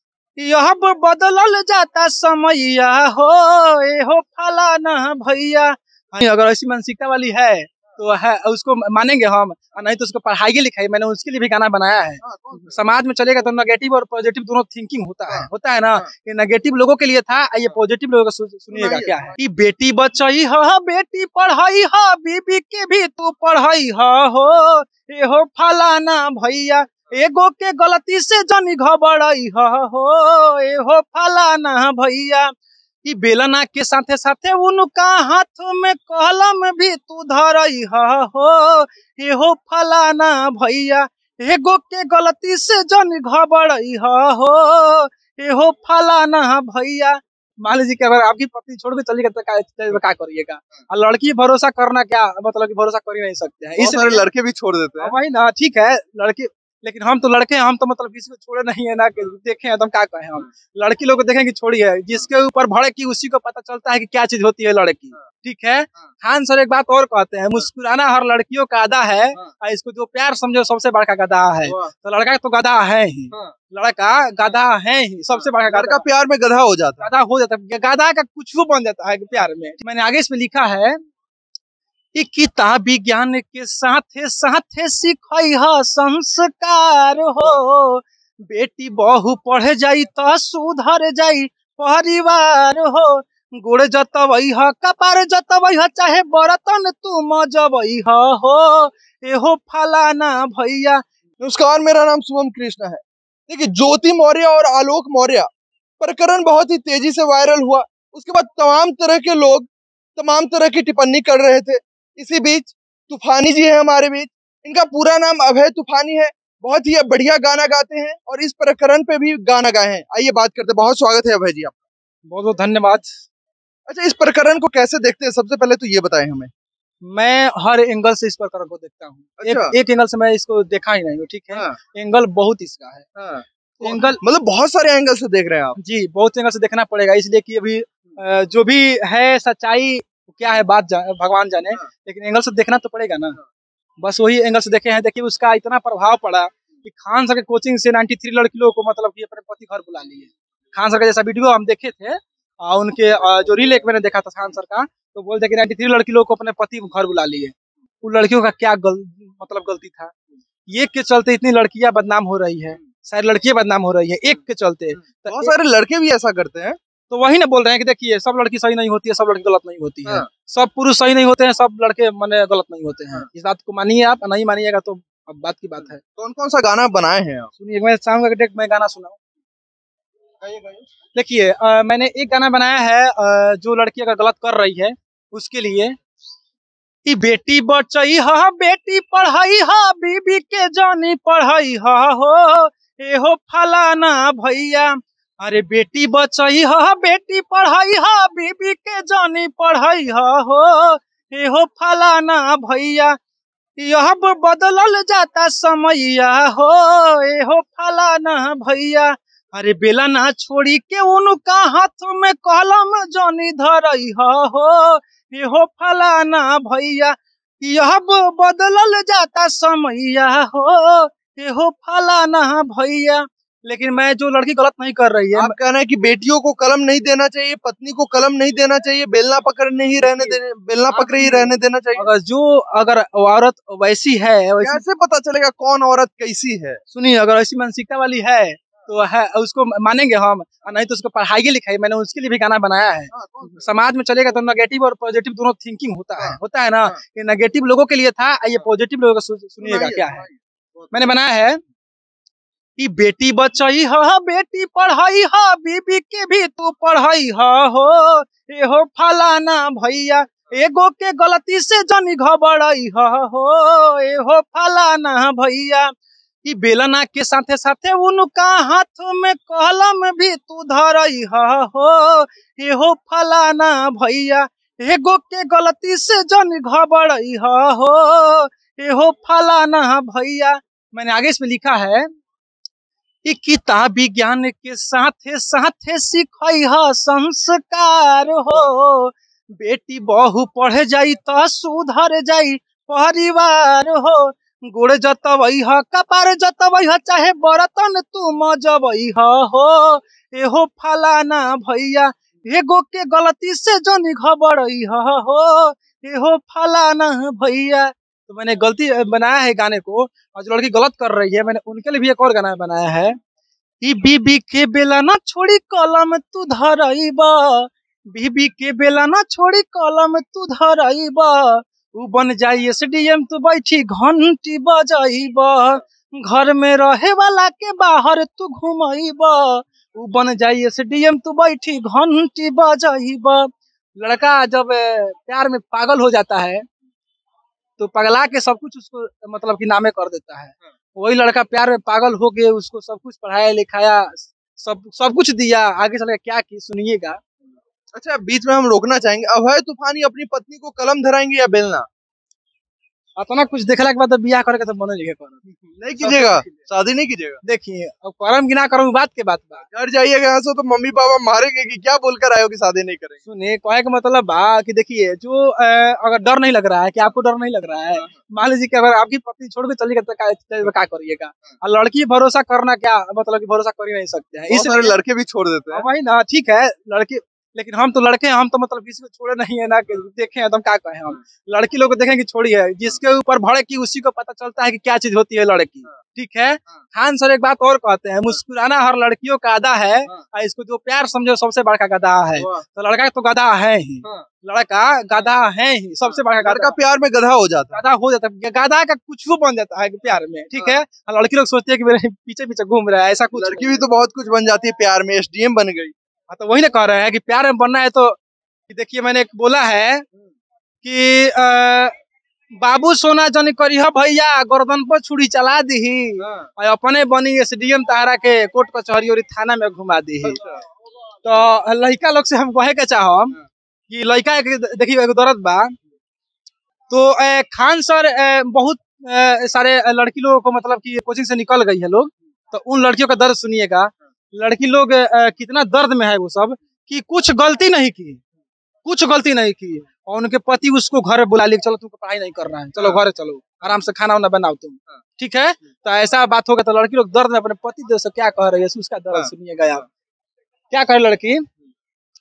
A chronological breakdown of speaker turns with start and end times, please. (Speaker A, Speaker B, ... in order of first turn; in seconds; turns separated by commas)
Speaker A: 0.4-32.5, Speaker B: 12.2-12.7, Speaker B: 15.3-16.1, Speaker B: 18.7-19.3, Speaker A: 33.0-54.2, Speaker B: 53.8-55.1, Speaker A: 55.0-76.0, Speaker B: 75.7-77.1, Speaker A: 77.0-81.0, Speaker A: 82.1-101.0, Speaker B: 101.4-105.5, Speaker B: 106.0-121.8, Speaker A: 122.2-123.1, Speaker B: 123.9-126.5, Speaker A: 127.0-133.1, Speaker B: 129.4-129.7, Speaker B: 133.2-135.8, Speaker A: 133.8-134.2, Speaker A: 135.8-143.4, Speaker A: 144.0-160.1, Speaker A: 160.7-165.5, Speaker B: 165.3-166.8, Speaker A: 167.1-176.0, Speaker B: 176.2-177.5, Speaker A: 177.6-179.2, Speaker B: 180.4-180.9, Speaker A: 181.1-186.0, Speaker A: 187.1-203.2, Speaker A: 203.8-225.5, Speaker B: 225.3-232.1, Speaker A: 230.0-230.4, Speaker A: 230.9-234.8, Speaker B: 234.6-236.8, Speaker A: 236.9-250.3, Speaker B: 243.1-243.6, Speaker B: 246.2-247.0, Speaker B: 249.6-250.9, Speaker A: 250.9-251.6, Speaker A: 252.8-265.9, Speaker A: 266.4-282.1, Speaker A: 283.2-313.2, Speaker A: 313.8-336.6, Speaker A: 337.8-347.2, Speaker B: 347.9-351.9, Speaker A: 353.2-356.5, Speaker B: 355.8-357.4, Speaker A: 357.4-359.7, Speaker B: 359.7-363.2, Speaker A: 363.2-374.9, Speaker B: 374.5-375.9, Speaker A: 375.7-396.8, Speaker B: 396.4-397.8, Speaker A: 397.7-403.8, Speaker B: 403.3-405.9, Speaker A: 406.3-410.0, Speaker A: 410.8-411.9, Speaker A: 412.6-420.4, Speaker B: 420.2-420.6, Speaker A: 421.2-425.8, Speaker A: 426.9-438.2, Speaker A: 438.8-449.8, Speaker A: 450.7-451.5